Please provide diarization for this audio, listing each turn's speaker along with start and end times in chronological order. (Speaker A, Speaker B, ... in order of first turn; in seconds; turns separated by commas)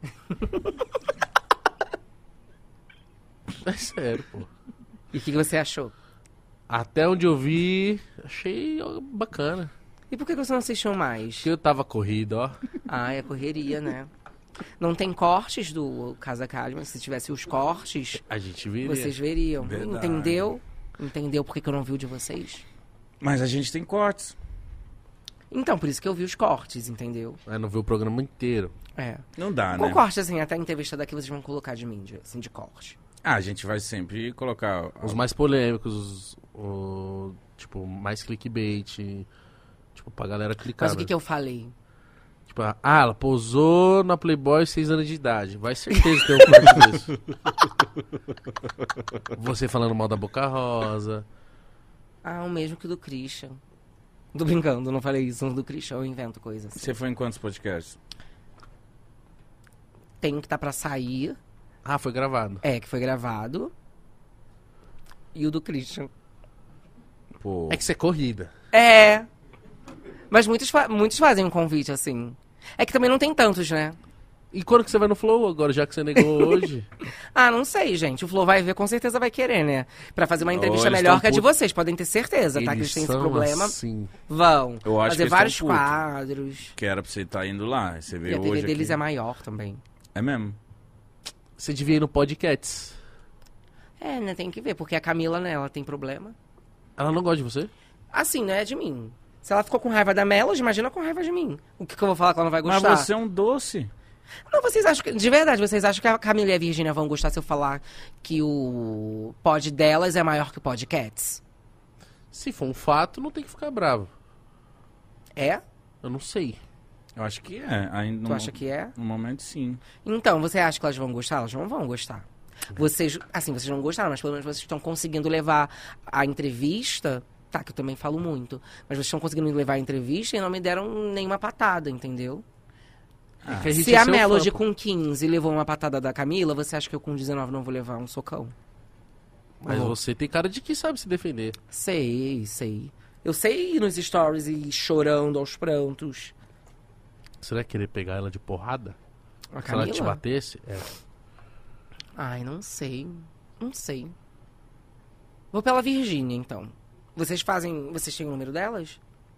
Speaker A: 0.4-0.6, Speaker B: 3.5-4.5, Speaker A: 5.1-5.9, Speaker B: 6.7-9.7, Speaker A: 10.1-11.5, Speaker B: 11.4-12.6, Speaker A: 12.9-14.1, Speaker A: 14.8-18.2, Speaker B: 18.1-19.2, Speaker A: 18.8-22.6, Speaker C: 19.6-20.5, Speaker C: 23.2-24.4, Speaker A: 25.5-27.4, Speaker B: 27.5-28.8, Speaker A: 29.0-33.0, Speaker C: 29.4-30.0, Speaker C: 33.2-35.2, Speaker B: 35.0-39.3, Speaker B: 40.0-41.1, Speaker A: 40.8-41.7, Speaker B: 42.5-47.2, Speaker B: 49.3-51.2, Speaker A: 52.2-53.6, Speaker A: 54.3-56.9, Speaker C: 56.8-58.0, Speaker A: 60.2-61.4, Speaker B: 61.9-62.6, Speaker A: 62.6-63.7, Speaker A: 65.3-66.1, Speaker C: 67.4-67.8, Speaker B: 67.7-68.5, Speaker A: 68.7-69.3, Speaker A: 70.3-74.0, Speaker B: 74.5-76.9, Speaker A: 76.4-76.6, Speaker A: 77.3-83.8, Speaker C: 80.5-81.4, Speaker B: 81.1-81.4, Speaker B: 82.5-84.1, Speaker A: 84.3-86.8, Speaker C: 84.8-86.0, Speaker C: 86.8-89.0, Speaker A: 88.3-89.8, Speaker C: 90.2-90.6, Speaker B: 91.6-93.0, Speaker A: 94.0-96.4, Speaker B: 97.0-97.7, Speaker A: 98.1-103.1, Speaker C: 102.6-103.9, Speaker A: 104.5-111.4, Speaker B: 112.3-114.1, Speaker A: 115.4-115.6, Speaker B: 116.0-116.6, Speaker C: 117.2-119.8, Speaker A: 118.3-118.9, Speaker A: 120.0-132.4, Speaker C: 133.4-133.8, Speaker B: 133.5-134.6, Speaker A: 133.6-138.5, Speaker B: 139.6-141.6, Speaker A: 139.7-139.9, Speaker A: 141.7-146.3, Speaker B: 147.4-149.0, Speaker A: 149.5-150.2, Speaker B: 149.7-150.9, Speaker A: 152.2-154.2, Speaker A: 155.5-159.0